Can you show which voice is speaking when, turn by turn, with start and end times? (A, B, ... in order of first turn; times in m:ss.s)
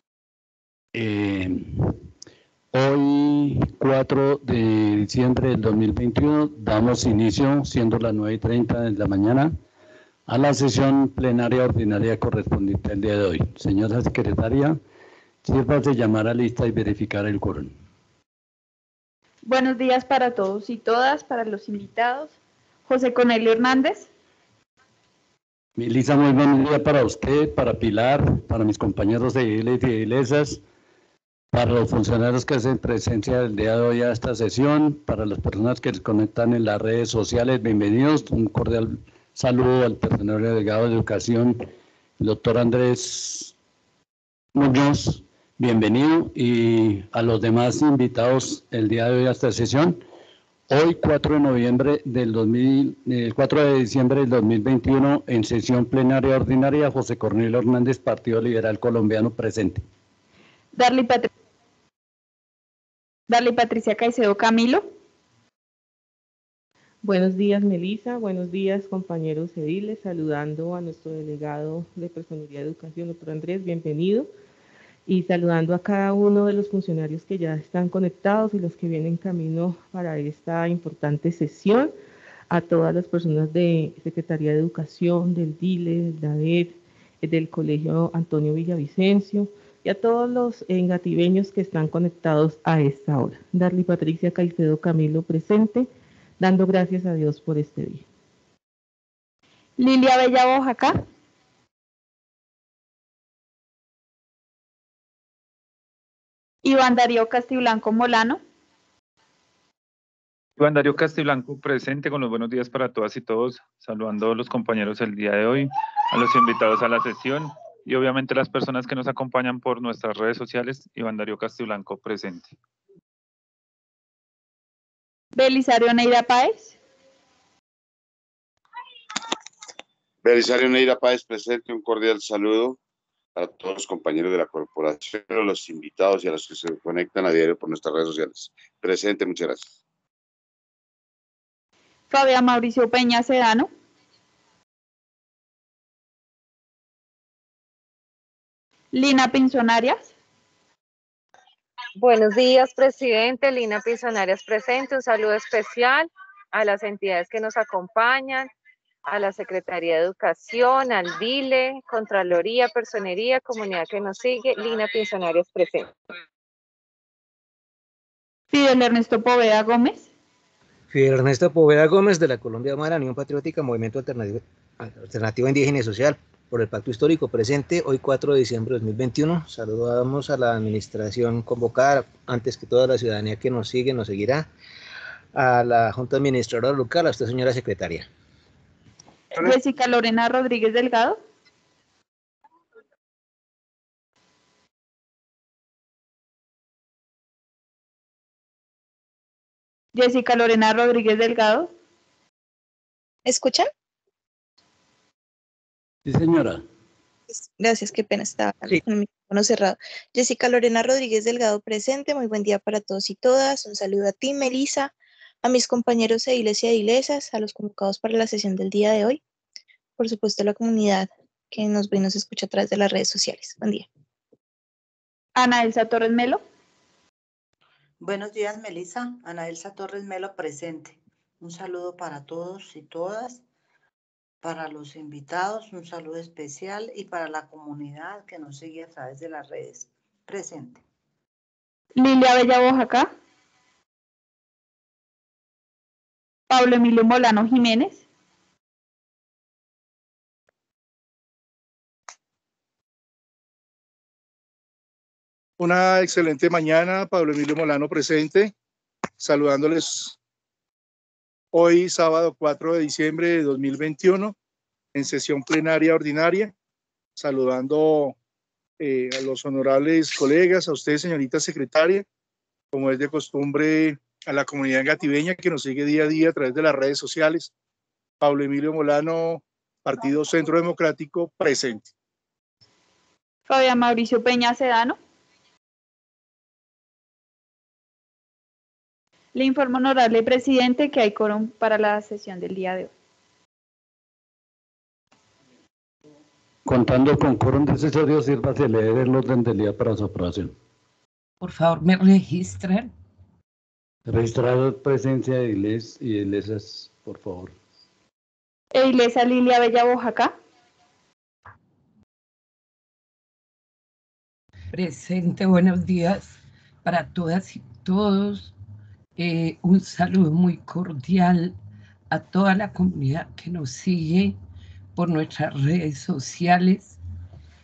0:00.9-0:02.0 A
0:02.7-0:09.5 A
0:10.3-0:14.8 A
0:15.4-0:17.7 A
0:19.4-0:22.4 B
0:22.9-0:24.1 B
0:25.8-0:30.6 A
0:31.5-0:43.5 A
0:44.5-0:50.0 A
0:50.7-0:59.8 A
1:00.7-1:01.3 B
1:03.3-1:04.8 B
1:07.0-1:14.3 C
1:15.1-1:21.9 C
1:22.5-1:38.0 C
1:39.8-1:41.0 B
1:46.6-1:48.4 B
1:50.6-2:02.5 D
2:05.3-2:06.8 B
2:10.2-2:12.8 E
2:13.4-2:19.7 E
2:22.1-2:23.7 B
2:28.9-2:30.1 B
2:32.0-2:38.5 F
2:39.0-2:45.9 F
2:48.5-2:50.1 B
2:50.9-3:04.5 G
3:05.3-3:08.1 G
3:09.4-3:11.2 B
3:19.9-3:21.7 B
3:23.2-3:23.7 H
3:26.0-3:26.6 A
3:27.4-3:39.2 H
3:40.0-3:43.8 H
3:45.3-3:46.4 B
3:48.0-3:53.4 I
3:54.4-4:00.8 I
4:02.0-4:03.1 B
4:06.5-4:08.0 B
4:15.6-4:18.5 J
4:19.2-4:20.2 J
4:21.5-4:24.3 J
4:24.9-4:26.5 J
4:27.2-4:28.1 J
4:28.8-4:32.0 J
4:32.7-4:37.5 J
4:38.2-4:41.8 J
4:43.5-4:45.0 B
4:49.3-4:52.9 B
4:56.6-5:00.5 A
5:01.4-5:02.9 K
5:04.1-5:07.5 A
5:08.7-5:10.3 B
5:14.7-5:18.5 K
5:19.2-5:21.5 K
5:22.1-5:24.4 K
5:24.9-5:27.0 K